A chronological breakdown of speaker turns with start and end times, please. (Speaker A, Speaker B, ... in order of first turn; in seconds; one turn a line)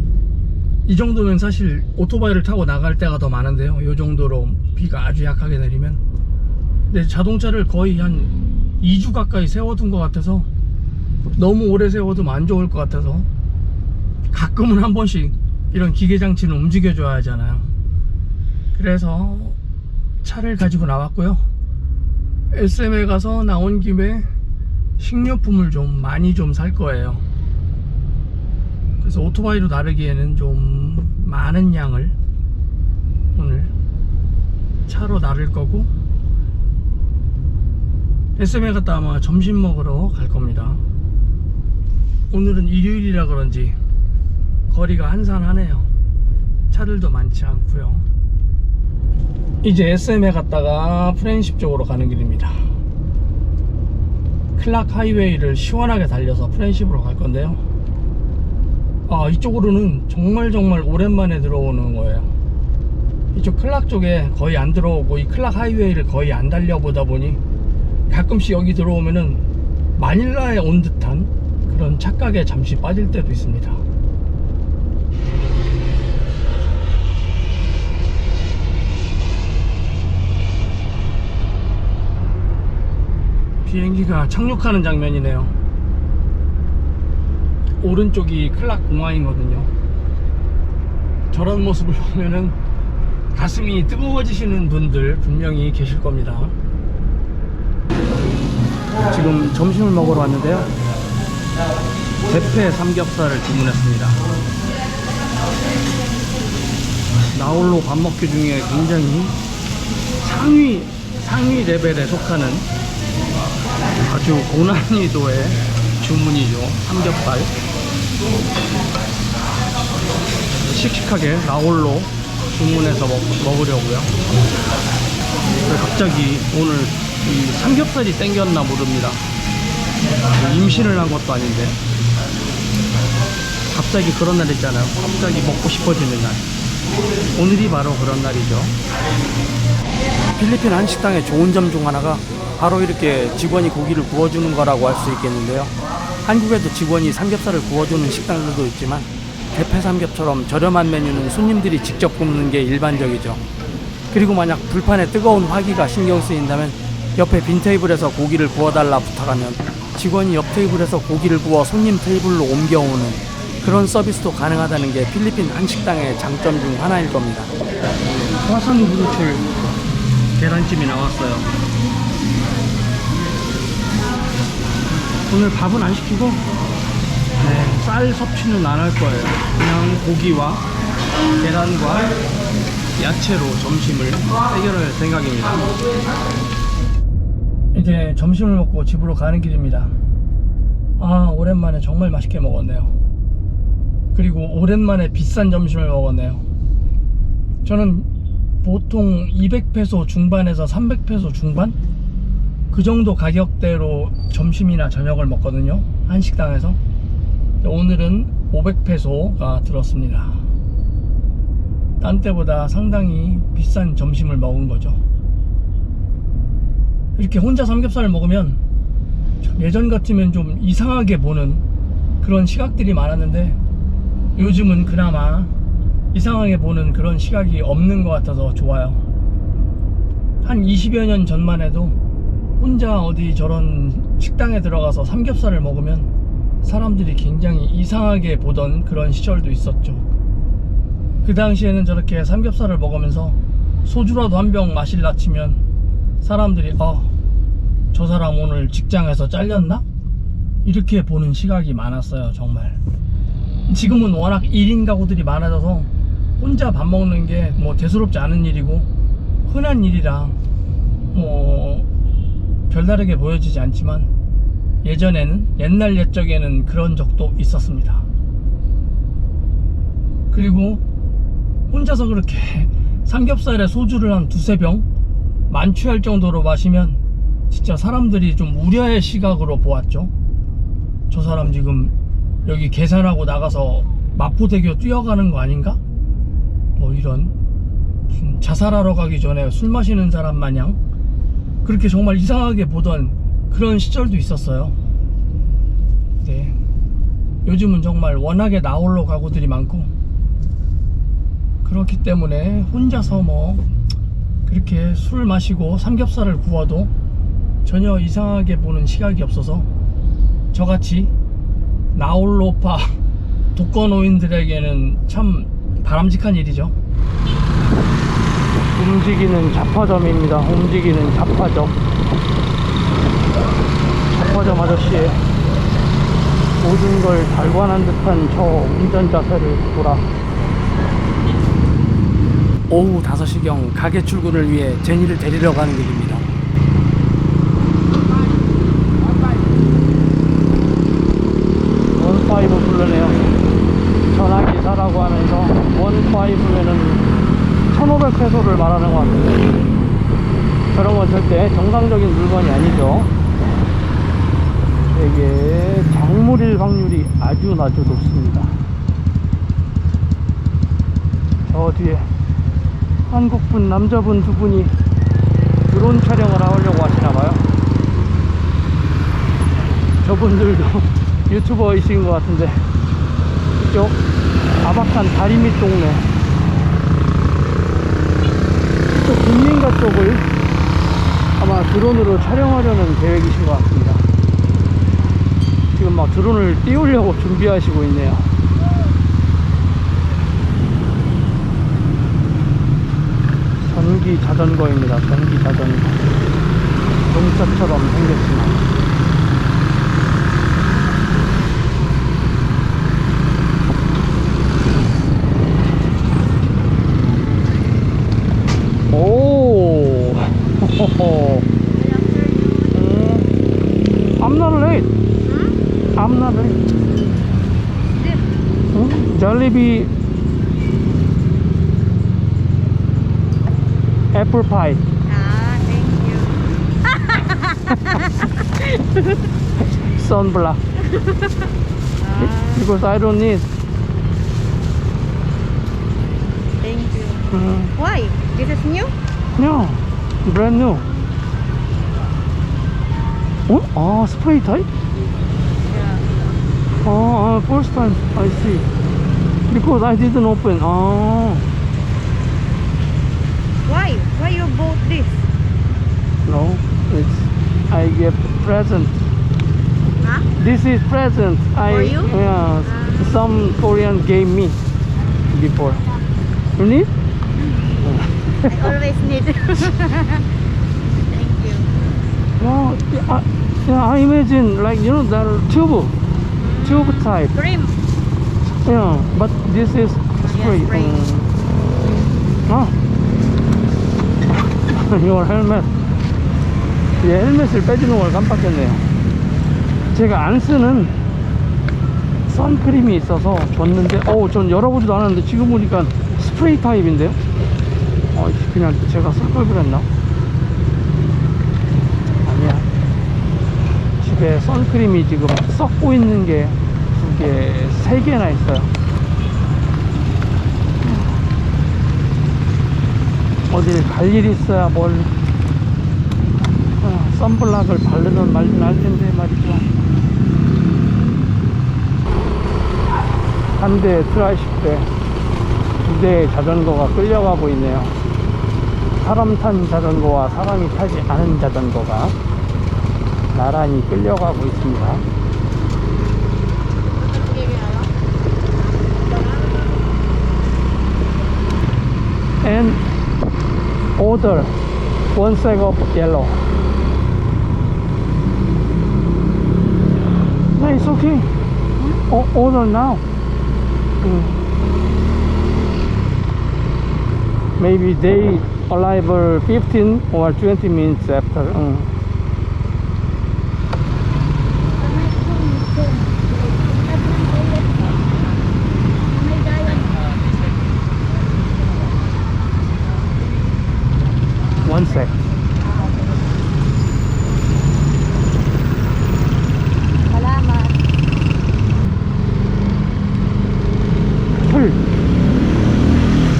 Speaker A: 0.8-6.0
Speaker A: 6.9-10.5
Speaker A: 11.3-13.3
Speaker A: 14.3-17.7
Speaker A: 18.7-19.6
Speaker A: 20.2-21.4
Speaker A: 22.5-24.3
Speaker A: 25.0-27.2
Speaker A: 29.0-32.1
Speaker A: 33.3-33.7
Speaker A: 34.9-35.9
Speaker A: 38.4-40.8
Speaker A: 42.3-43.8
Speaker A: 44.7-45.9
Speaker A: 46.7-48.0
Speaker A: 49.6-52.6
Speaker A: 54.5-57.6
Speaker A: 59.1-62.3
Speaker A: 63.3-67.4
Speaker A: 68.1-69.4
Speaker A: 70.0-73.8
Speaker A: 83.6-85.5
Speaker A: 87.8-89.7
Speaker A: 91.3-92.5
Speaker A: 93.3-96.5
Speaker A: 99.1-100.7
Speaker A: 102.2-104.2
Speaker A: 107.3-109.3
Speaker A: 110.2-112.7
Speaker A: 114.0-117.5
Speaker A: 120.6-124.1
Speaker A: 125.6-129.2
Speaker A: 130.4-131.8
Speaker A: 133.7-136.4
Speaker A: 137.3-138.8
Speaker A: 140.3-153.4
Speaker A: 154.1-167.5
Speaker A: 168.4-169.4
Speaker A: 170.4-171.5
Speaker A: 175.3-176.4
Speaker A: 177.4-180.7
Speaker A: 181.4-182.1
Speaker A: 183.0-185.7
Speaker A: 187.7-189.9
Speaker A: 191.0-192.9
Speaker A: 194.1-196.4
Speaker A: 197.6-198.1
Speaker A: 198.6-201.8
Speaker A: 202.7-206.8
Speaker A: 207.6-210.4
Speaker A: 212.0-215.0
Speaker A: 217.2-218.6
Speaker A: 219.4-221.6
Speaker A: 222.2-223.6
Speaker A: 224.3-225.5
Speaker A: 226.1-229.0
Speaker A: 230.4-232.0
Speaker A: 232.6-236.1
Speaker A: 236.6-240.0
Speaker A: 241.2-245.6
Speaker A: 246.2-247.1
Speaker A: 247.9-249.8
Speaker A: 250.6-252.8
Speaker A: 253.7-258.9
Speaker A: 259.4-260.4
Speaker A: 261.1-261.9
Speaker A: 262.7-264.1
Speaker A: 264.8-268.0
Speaker A: 270.3-270.8
Speaker A: 271.7-274.9
Speaker A: 275.5-280.1
Speaker A: 281.1-281.9
Speaker A: 282.4-285.8
Speaker A: 286.8-287.3
Speaker A: 288.1-290.8
Speaker A: 291.6-294.8
Speaker A: 296.2-296.6
Speaker A: 297.4-299.9
Speaker A: 301.6-303.7
Speaker A: 304.4-306.9
Speaker A: 307.6-309.7
Speaker A: 310.5-311.1
Speaker A: 311.9-312.9
Speaker A: 313.5-316.7
Speaker A: 318.7-321.8
Speaker A: 324.1-325.2
Speaker A: 326.6-330.1
Speaker A: 332.7-336.3
Speaker A: 341.9-343.2
Speaker A: 344.1-347.1
Speaker A: 347.7-349.5
Speaker A: 350.7-353.1
Speaker A: 354.9-358.5
Speaker A: 361.5-362.1
Speaker A: 363.1-364.7
Speaker A: 365.7-367.4
Speaker A: 370.0-372.6
Speaker A: 373.6-374.0
Speaker A: 374.6-376.1
Speaker A: 378.9-380.2
Speaker A: 381.4-384.0
Speaker A: 385.7-388.3
Speaker A: 393.6-396.0
Speaker A: 397.1-398.7
Speaker A: 408.9-411.5
Speaker B: 411.7-412.9
Speaker A: 412.7-413.3
Speaker A: 414.2-414.9
Speaker B: 415.2-415.6
Speaker A: 415.9-416.6
Speaker B: 417.9-418.2
Speaker A: 418.7-419.9
Speaker A: 424.1-424.8
Speaker B: 425.1-426.4
Speaker B: 427.1-429.1
Speaker A: 429.8-430.6
Speaker B: 432.0-432.6
Speaker A: 432.2-433.5
Speaker B: 436.6-438.9
Speaker A: 437.3-437.7
Speaker A: 439.4-440.9
Speaker A: 443.5-444.7
Speaker B: 445.7-446.1
Speaker A: 446.8-448.7
Speaker A: 449.5-451.5
Speaker B: 453.6-455.3
Speaker A: 456.2-459.0
Speaker B: 460.0-460.3
Speaker A: 460.4-464.6
Speaker B: 461.6-463.1
Speaker A: 465.3-465.8
Speaker A: 466.6-466.9
Speaker B: 467.5-467.8
Speaker A: 467.8-468.8
Speaker B: 468.4-470.3
Speaker B: 471.1-471.8
Speaker A: 472.4-475.9
Speaker B: 476.4-477.8
Speaker A: 476.6-477.3
Speaker A: 478.6-481.3
Speaker B: 480.2-481.0
Speaker A: 482.5-482.7
Speaker A: 484.7-485.7
Speaker A: 487.0-488.9
Speaker A: 489.9-490.9
Speaker A: 492.3-497.2
Speaker A: 498.1-499.9
Speaker A: 502.2-502.7
Speaker A: 504.0-508.7
Speaker A: 513.5-515.1
Speaker A: 516.8-519.7
Speaker A: 523.6-524.9
Speaker A: 525.8-527.9
Speaker A: 529.0-532.1
Speaker A: 533.3-535.0
Speaker B: 536.9-537.9
Speaker B: 538.9-539.8
Speaker A: 542.4-542.8
Speaker A: 544.0-544.5
Speaker A: 545.1-546.4
Speaker A: 550.6-551.3
Speaker A: 552.1-553.0
Speaker A: 554.0-554.4
Speaker A: 557.6-561.9
Speaker B: 564.8-568.0
Speaker B: 569.2-570.1
Speaker A: 574.6-575.1
Speaker B: 580.1-580.8
Speaker A: 584.4-584.8